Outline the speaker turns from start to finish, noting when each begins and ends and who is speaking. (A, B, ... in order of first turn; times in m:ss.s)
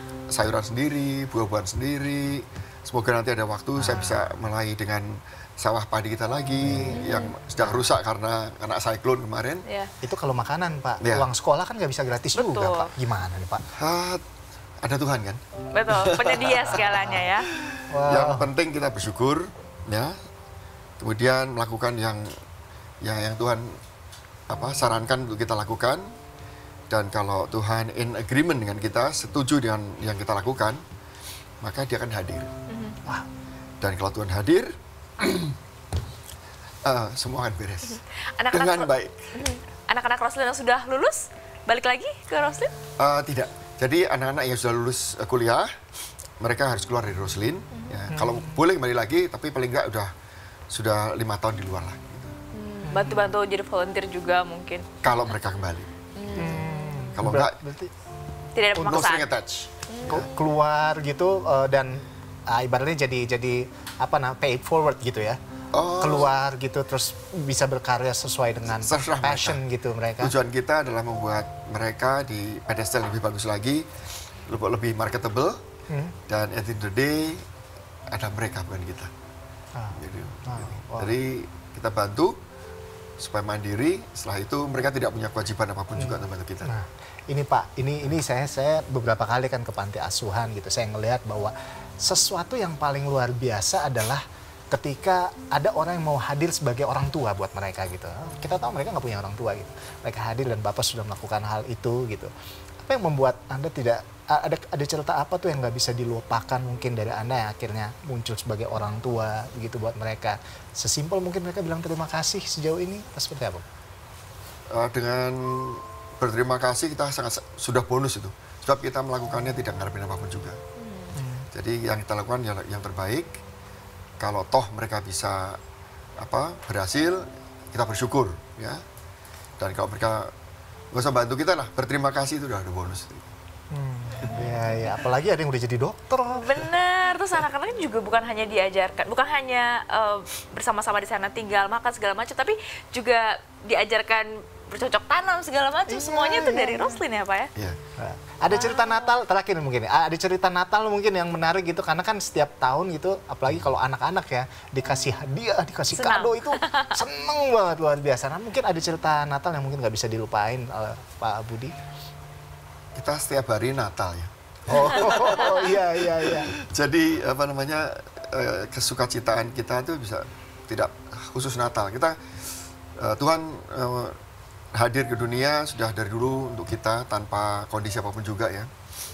0:00.3-0:09.6 A
0:03.8-0:04.2 B
0:06.6-0:07.0 B
0:07.0-0:07.3 C
0:10.0-0:13.6 B
0:11.0-0:11.3 A
0:12.3-0:12.9 C
0:13.8-0:14.2 A
0:14.8-0:16.9 A
0:15.7-0:17.5 C
0:16.7-0:17.2 B
0:17.6-0:20.1 A
0:17.9-0:18.5 B
0:21.0-0:22.3 A
0:23.0-0:23.8 A
0:24.5-0:26.0 A
0:26.9-0:30.8 A
0:31.6-0:32.5 A
0:32.7-0:33.0 C
0:33.8-0:35.5 A
0:36.8-0:38.0 A
0:38.4-0:42.7 C
0:38.5-0:39.1 A
0:43.0-0:45.7 A
0:46.4-0:50.1 A
0:48.1-0:48.6 B
0:50.7-0:52.4 A
0:52.5-0:54.9 C
0:52.8-0:53.4 B
0:55.0-0:56.5 A
0:56.2-0:57.1 C
0:56.3-0:57.9 B
0:57.1-0:57.6 A
0:58.5-0:59.3 C
0:58.7-0:59.0 B
0:58.8-1:00.3 A
0:59.9-1:00.2 C
1:00.1-1:05.4 B
1:05.7-1:06.3 A
1:06.0-1:10.3 B
1:08.7-1:09.6 A
1:10.2-1:13.8 A
1:14.5-1:15.6 A
1:15.9-1:16.1 B
1:16.3-1:17.4 A
1:18.1-1:19.1 A
1:19.8-1:21.1 B
1:19.9-1:22.4 A
1:23.2-1:26.7 A
1:26.0-1:42.3 B
1:42.8-1:53.6 B
1:54.7-2:00.6 A
2:00.8-2:01.2 C
2:01.2-2:01.4 B
2:01.5-2:03.3 A
2:04.2-2:05.6 A
2:06.2-2:08.8 A
2:09.6-2:10.3 A
2:10.9-2:13.2 A
2:13.7-2:16.6 B
2:16.4-2:27.5 C
2:25.9-2:27.0 B
2:28.0-2:41.7 B
2:28.5-2:29.1 C
2:35.9-2:37.0 C
2:43.0-2:52.2 A
2:44.7-2:46.5 B
2:44.8-2:45.1 C
2:53.0-2:54.2 A
2:54.7-2:58.7 A